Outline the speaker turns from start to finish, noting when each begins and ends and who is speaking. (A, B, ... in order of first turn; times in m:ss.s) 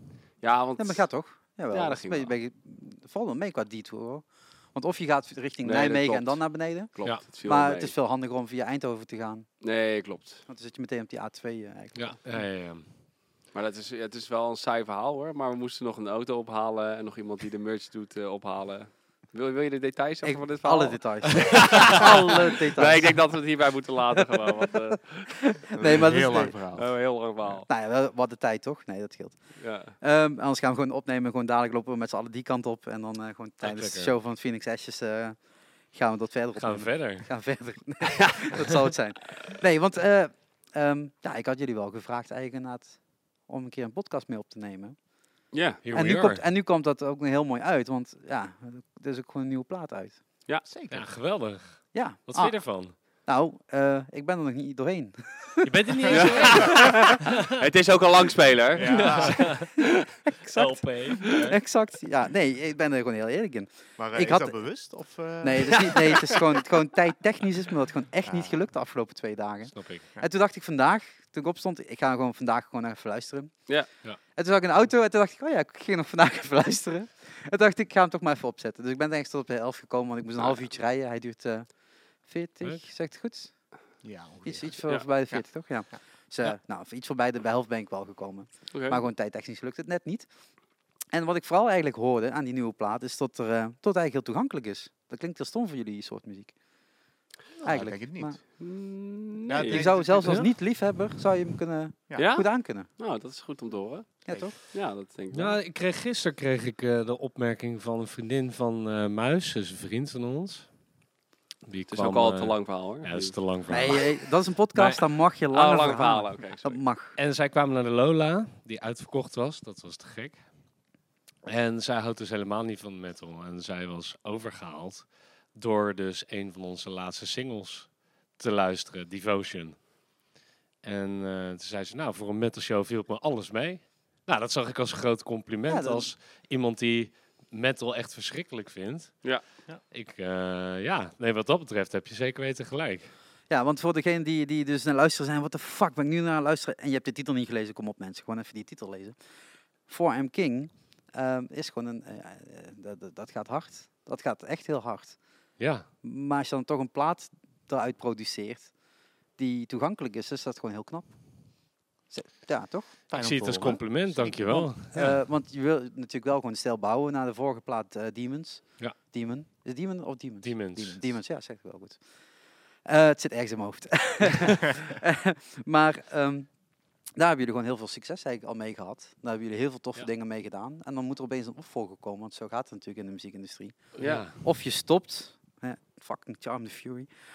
0:00.4-0:01.1 A
0:00.8-0:09.5 B
0:01.7-0:02.3 A
0:05.6-0:07.9 A
0:09.6-0:10.4 A
0:10.5-0:12.4 B
0:12.0-0:12.9 C
0:13.5-0:25.4 A
0:20.2-0:23.3 B
0:25.5-0:26.6 B
0:25.8-0:26.9 D
0:26.7-0:27.7 A
0:27.7-0:35.4 B
0:29.6-0:30.0 A
0:33.6-0:34.1 C
0:35.9-0:45.0 B
0:36.6-0:37.3 C
0:45.5-0:45.8 A
0:45.8-0:46.4 C
0:45.9-0:50.2 B
0:50.6-0:51.1 D
0:50.9-0:52.9 C
0:51.9-0:56.7 B
0:55.6-0:57.5 C
0:56.1-0:58.9 A
0:58.8-0:59.5 D
0:58.8-0:59.8 C
1:00.4-1:04.6 B
1:00.5-1:01.6 C
1:04.0-1:06.3 D
1:05.4-1:13.7 B
1:08.2-1:08.5 D
1:09.7-1:10.0 C
1:14.4-1:21.7 B
1:22.2-1:23.5 B
1:24.0-1:24.8 D
1:24.5-1:30.3 B
1:28.7-1:29.0 A
1:31.1-1:36.6 B
1:37.6-1:38.4 D
1:37.6-1:38.4 B
1:38.6-1:40.0 A
1:39.5-1:40.5 D
1:39.6-1:42.9 B
1:42.2-1:45.6 A
1:44.2-1:44.6 B
1:45.3-1:50.7 C
1:51.7-1:54.2 C
1:51.9-1:53.4 A
1:53.7-1:57.2 B
1:54.7-1:55.0 C
1:55.5-1:56.8 A
1:57.2-2:00.4 C
2:01.5-2:09.8 C
2:10.8-2:19.2 C
2:15.7-2:16.1 B
2:19.9-2:23.1 C
2:23.5-2:29.2 B
2:29.9-2:35.2 B
2:35.6-2:35.9 C
2:36.0-2:38.7 B
2:39.4-2:41.2 B
2:42.1-2:42.9 B
2:43.1-2:44.5 D
2:43.1-2:45.2 C
2:44.4-2:52.0 B
2:50.4-2:51.0 C
2:52.8-2:56.5 B
2:57.2-3:07.1 B
3:04.0-3:04.2 A
3:04.0-3:04.4 C